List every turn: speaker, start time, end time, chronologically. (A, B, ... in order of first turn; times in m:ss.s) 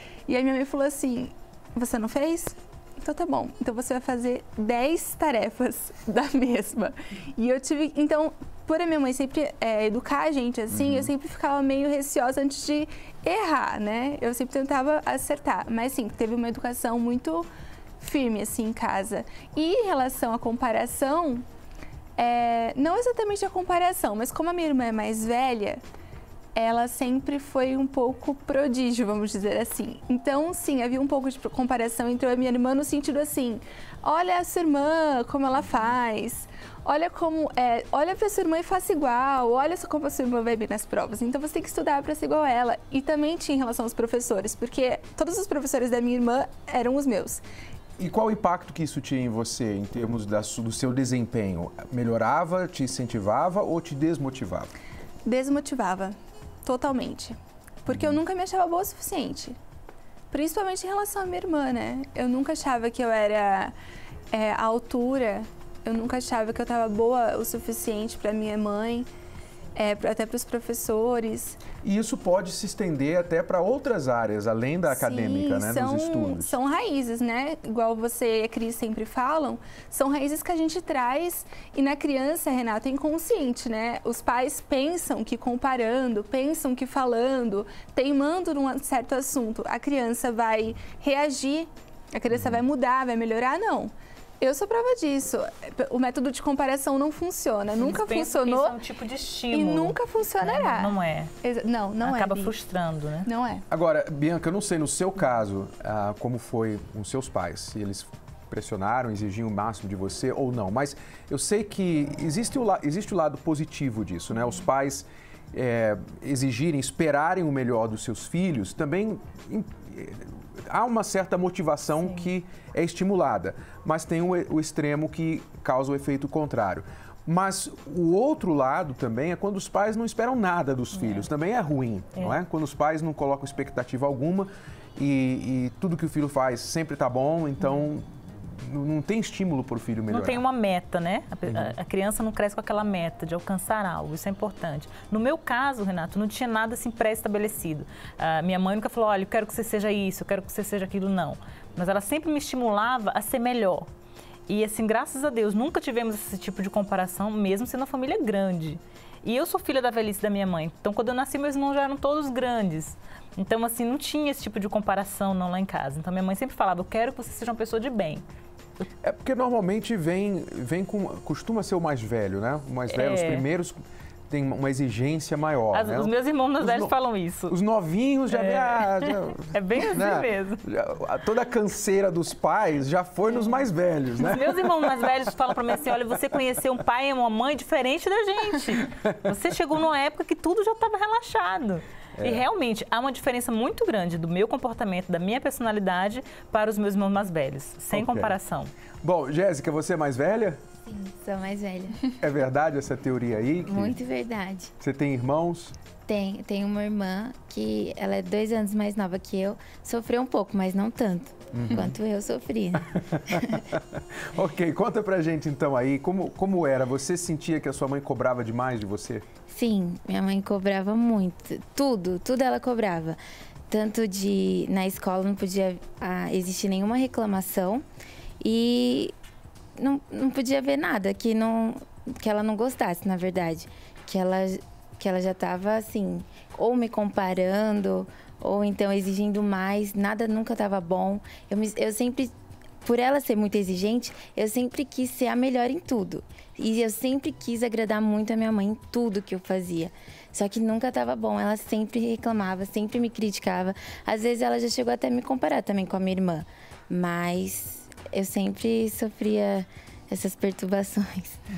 0:00.3-0:17.5 A
0:18.0-0:21.4 A
0:22.2-0:25.8 A
0:26.5-0:47.4 A
0:48.0-0:54.7 B
0:55.2-0:59.6 A
0:57.9-0:58.1 B
1:00.3-1:03.7 A
1:04.3-1:09.1 A
1:09.7-1:11.6 A
1:11.8-1:16.6 B
1:14.9-1:38.8 A
1:37.7-1:41.3 C
1:39.5-1:42.5 A
1:42.0-1:43.3 C
1:43.2-1:43.6 A
1:43.7-2:20.4 B
2:02.0-2:02.3 C
2:10.9-2:11.3 C
2:20.1-2:33.9 C
2:21.5-2:21.7 B
2:34.5-2:48.2 C
2:49.0-2:56.9 B
2:52.9-2:53.4 C
2:55.7-2:57.5 C
2:57.5-3:05.1 B
2:58.3-2:59.0 C
2:59.5-3:00.6 C
3:03.3-3:03.6 C
3:04.2-3:18.7 C
3:12.2-3:12.4 B
3:17.9-3:18.4 B
3:19.0-3:20.6 B
3:20.8-3:22.0 D
3:22.2-3:24.0 B
3:23.6-3:24.7 D
3:24.8-3:25.7 B
3:26.0-3:33.6 D
3:31.5-3:32.0 B
3:33.3-3:39.2 B
3:39.5-3:47.8 D
3:48.4-3:49.1 D
3:49.8-4:21.4 D